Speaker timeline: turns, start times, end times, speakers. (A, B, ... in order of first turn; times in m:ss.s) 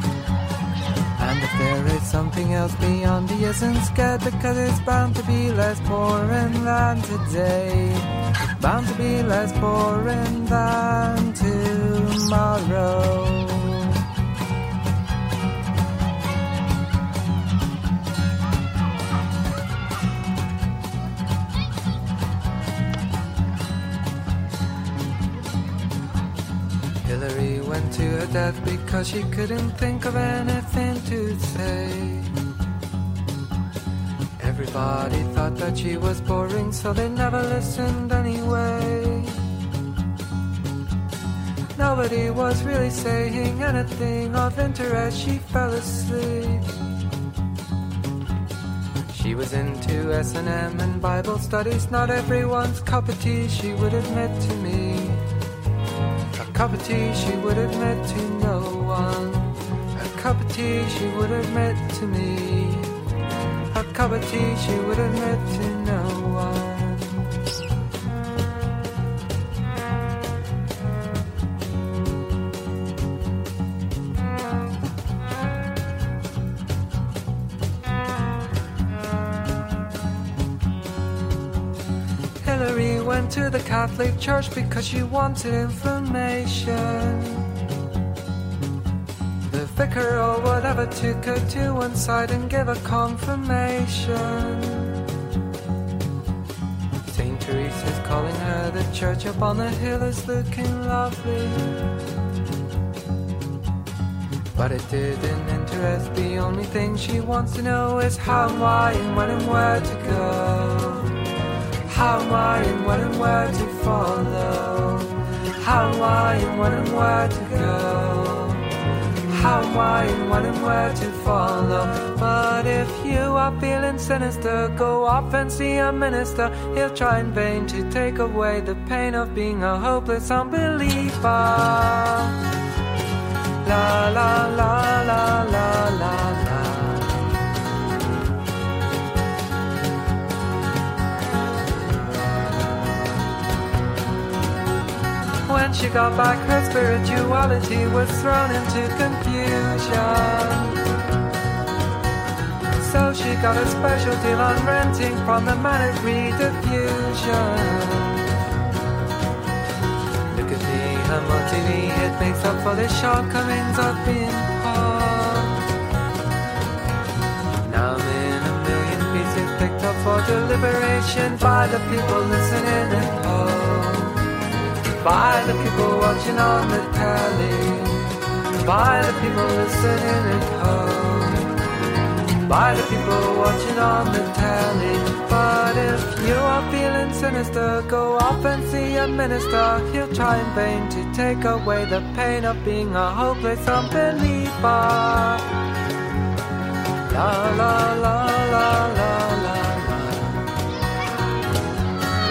0:01.2-0:14.0 A
0:27.0-0:32.3 A
0:34.4-0:39.4 A
0:41.8-0:46.7 A
0:49.1-0:55.2 A
0:56.4-1:02.9 A
1:03.7-1:07.2 A
1:22.4-1:27.5 A
1:29.5-1:35.0 A
1:37.1-1:41.8 A
1:44.6-1:51.2 A
1:51.9-1:58.7 A
1:59.3-2:12.4 A
2:13.6-2:17.3 A
2:25.4-2:30.8 A
2:32.8-2:38.2 A
2:40.3-2:45.6 A
2:47.6-2:54.2 A
2:55.0-2:58.1 A
2:58.6-3:01.5 A
3:02.5-3:15.4 A
3:17.1-3:20.5 A